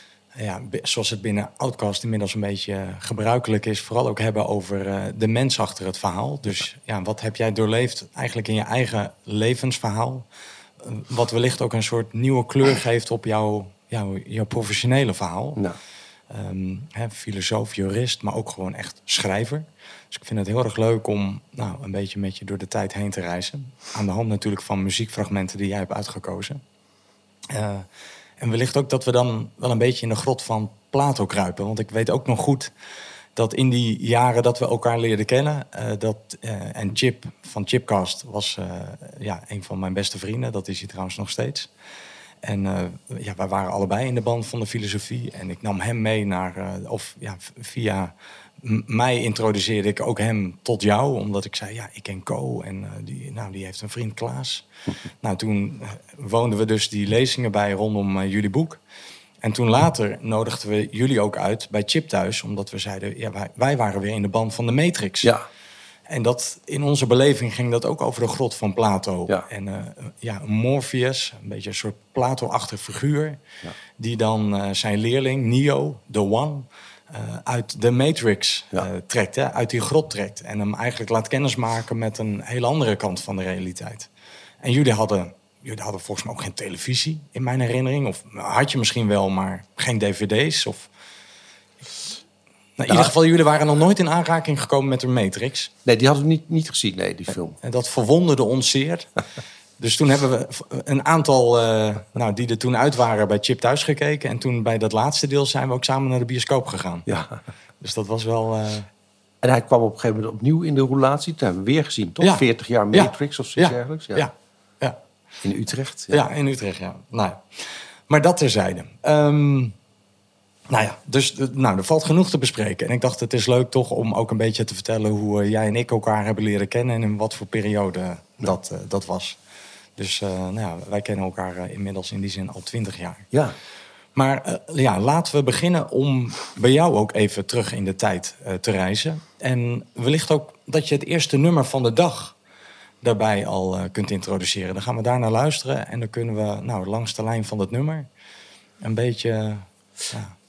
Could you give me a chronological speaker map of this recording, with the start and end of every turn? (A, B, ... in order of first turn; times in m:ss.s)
0:00.4-0:10.2 A
0:10.8-0:15.6 A
0:16.3-0:26.6 A
0:27.5-0:27.9 A
0:28.4-0:32.7 A
0:33.4-0:41.7 A
0:42.4-0:54.6 A
0:55.2-0:58.8 A
0:59.4-1:05.3 A
1:06.1-1:13.4 A
1:14.0-1:24.1 A
1:24.6-1:30.9 A
1:32.8-1:35.7 A
1:35.8-1:37.6 B
1:37.6-1:39.1 A
1:39.8-1:47.1 A
1:47.1-1:47.4 B
1:47.8-1:48.9 A
1:49.4-1:54.2 B
1:52.2-1:55.0 A
1:55.4-1:56.2 B
1:56.1-1:59.7 A
2:00.7-2:09.4 A
2:10.0-2:13.2 A
2:14.1-2:22.4 A
2:23.0-2:28.1 A
2:28.8-2:30.3 A